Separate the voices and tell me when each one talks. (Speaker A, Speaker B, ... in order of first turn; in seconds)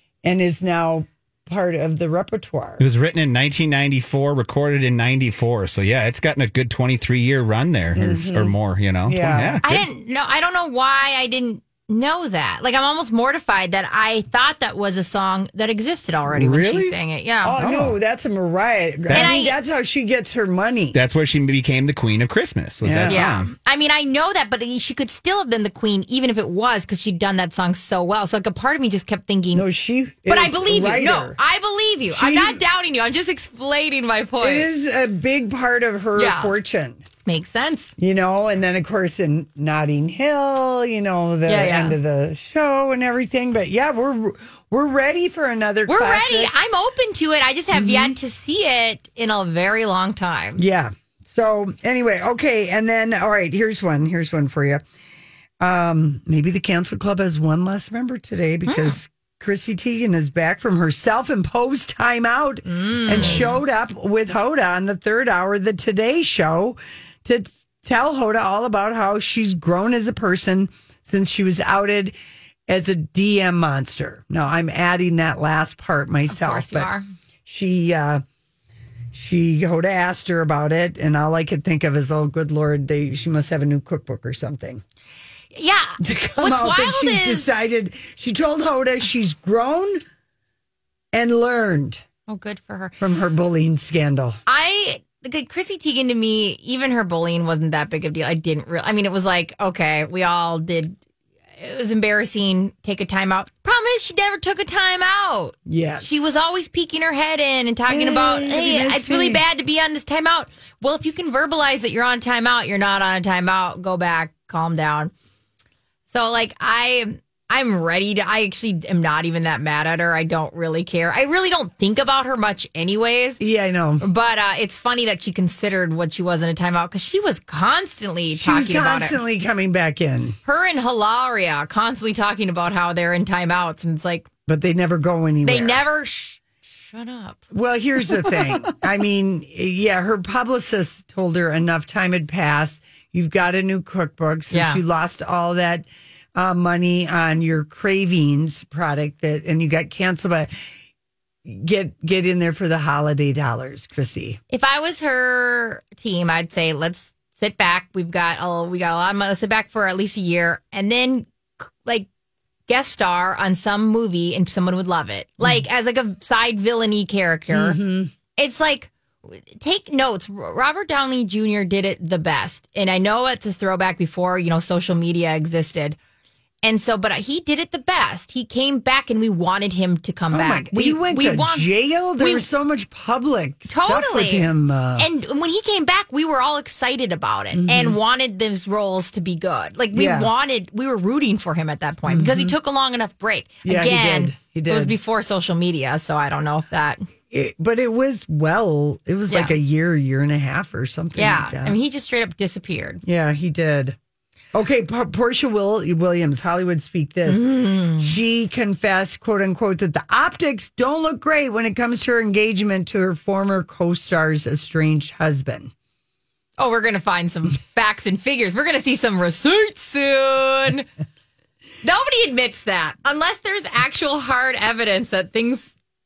Speaker A: 0.2-2.9, 8.0-9.6, 16.3-21.0, 22.8-23.3, 29.5-31.4, 32.1-32.6, 34.4-37.0, 38.0-46.5, 47.7-48.2, 50.6-54.8, 55.6-72.2, 72.7-76.9, 77.5-78.2, 79.1-84.8, 86.0-90.0, 91.1-92.0, 93.0-94.4, 105.7-106.2, 107.9-109.4, 123.4-124.0, 128.4-130.4, 134.5-135.8, 137.5-150.5, 151.4-154.4, 167.5-168.1, 180.3-185.1, 187.5-188.0, 189.9-190.3, 192.1-192.6, 193.7-194.9, 197.3-201.8, 203.0-204.0, 204.5-215.7
Speaker B: 2.8-9.9, 17.6-17.9, 20.9-23.5
Speaker C: 9.6-17.6, 19.1-19.6, 23.1-29.7, 30.3-34.7, 36.2-36.5, 37.3-37.9, 41.5-42.0, 45.9-50.6, 58.7-59.0, 62.7-63.5, 76.3-77.1, 85.5-87.6, 92.3-93.0, 94.5-101.0, 101.6-115.1, 116.1-123.4, 124.0-129.2, 130.4-134.3, 135.4-137.4, 144.5-144.8, 154.5-162.1, 162.7-167.8, 168.4-176.0, 176.6-182.4, 183.7-197.0, 199.3-199.6, 201.2-203.0, 207.3-208.2, 216.6-220.9, 221.8-225.8